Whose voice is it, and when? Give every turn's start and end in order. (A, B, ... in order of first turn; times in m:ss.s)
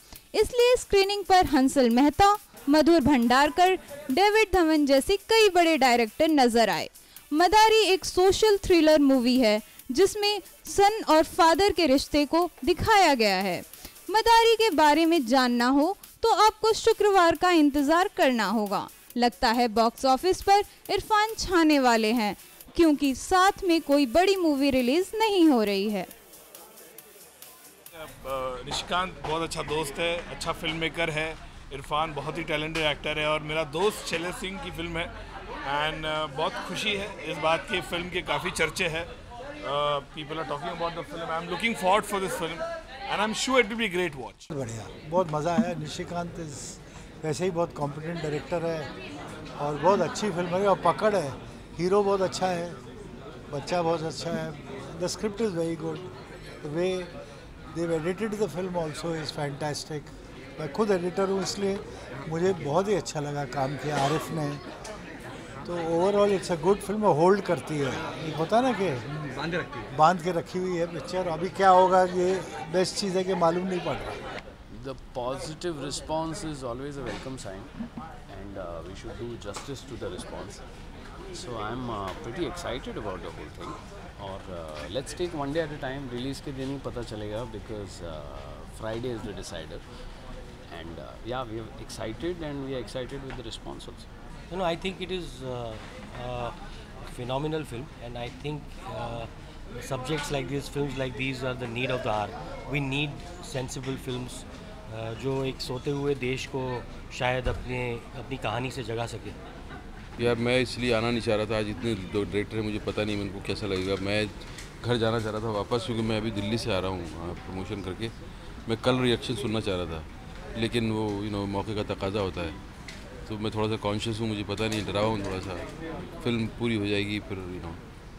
0:00.3-0:26.1 A
0:28.0-0:35.1 B
0:35.6-0:39.1 B
0:39.6-0:44.4 B
0:44.5-0:48.9 C
0:49.6-0:52.8 C
0:53.5-0:56.1 C
0:56.6-0:57.1 C
0:57.7-1:04.6 C
1:05.6-1:09.0 C
1:09.8-1:14.2 C
1:14.7-1:17.8 D
1:18.3-1:20.6 D
1:21.3-1:29.8 D
1:30.7-1:34.1 D
1:34.5-1:36.5 E
1:37.1-1:49.4 E
1:50.2-1:58.1 F
1:58.7-2:02.6 F
2:03.3-2:05.7 F
2:06.2-2:07.8 F